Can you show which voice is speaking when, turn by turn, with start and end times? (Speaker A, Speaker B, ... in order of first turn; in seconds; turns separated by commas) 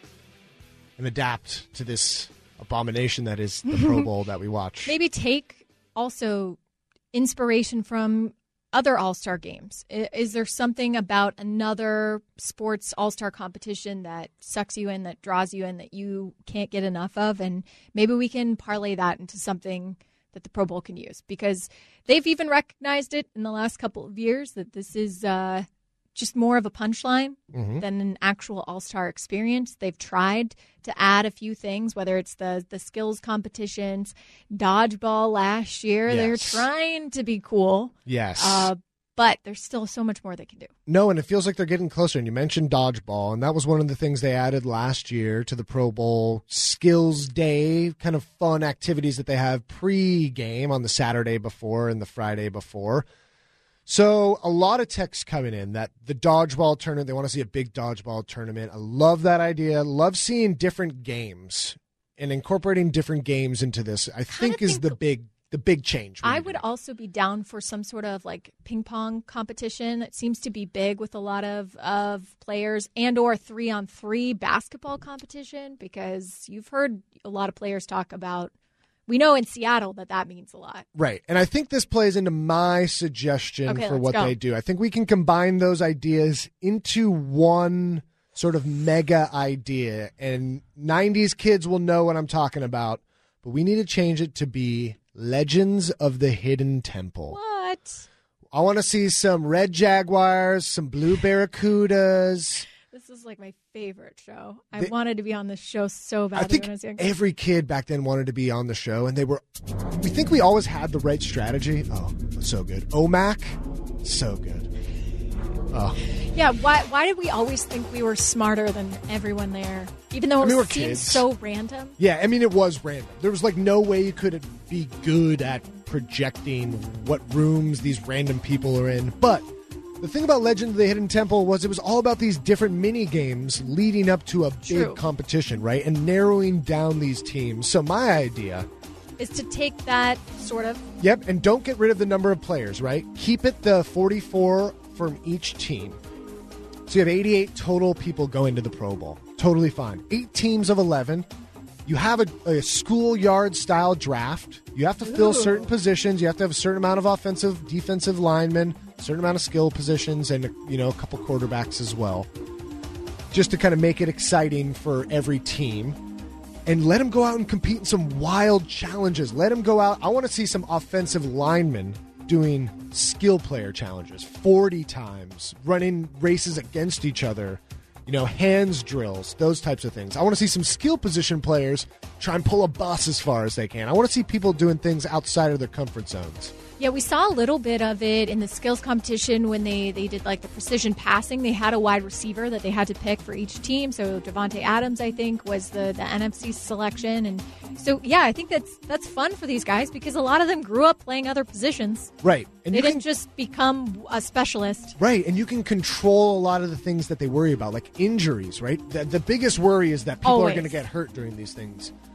Speaker A: 1.0-4.9, Speaker B: 4.8-6.6, Speaker B: 7.1-40.7, Speaker A: 27.5-27.8, Speaker A: 36.1-36.6, Speaker A: 38.0-38.7, Speaker A: 40.9-53.0, Speaker A: 53.9-66.6, Speaker B: 64.3-64.9, Speaker B: 66.2-78.5, Speaker B: 79.1-80.8, Speaker A: 80.9-97.4, Speaker B: 83.7-84.3, Speaker B: 97.3-98.0, Speaker A: 98.5-102.7, Speaker B: 102.9-107.1, Speaker A: 106.3-114.7, Speaker A: 115.7-116.0, Speaker B: 116.3-122.0, Speaker A: 120.4-121.2, Speaker A: 122.0-129.5, Speaker A: 130.0-138.7, Speaker B: 134.6-135.0, Speaker B: 139.2-140.8, Speaker A: 141.0-146.0, Speaker A: 146.9-151.3, Speaker A: 151.8-162.3, Speaker A: 163.3-166.0, Speaker A: 166.7-186.5, Speaker B: 186.8-202.1, Speaker A: 202.2-203.0, Speaker B: 202.7-204.9, Speaker A: 205.0-211.9, Speaker B: 210.2-210.7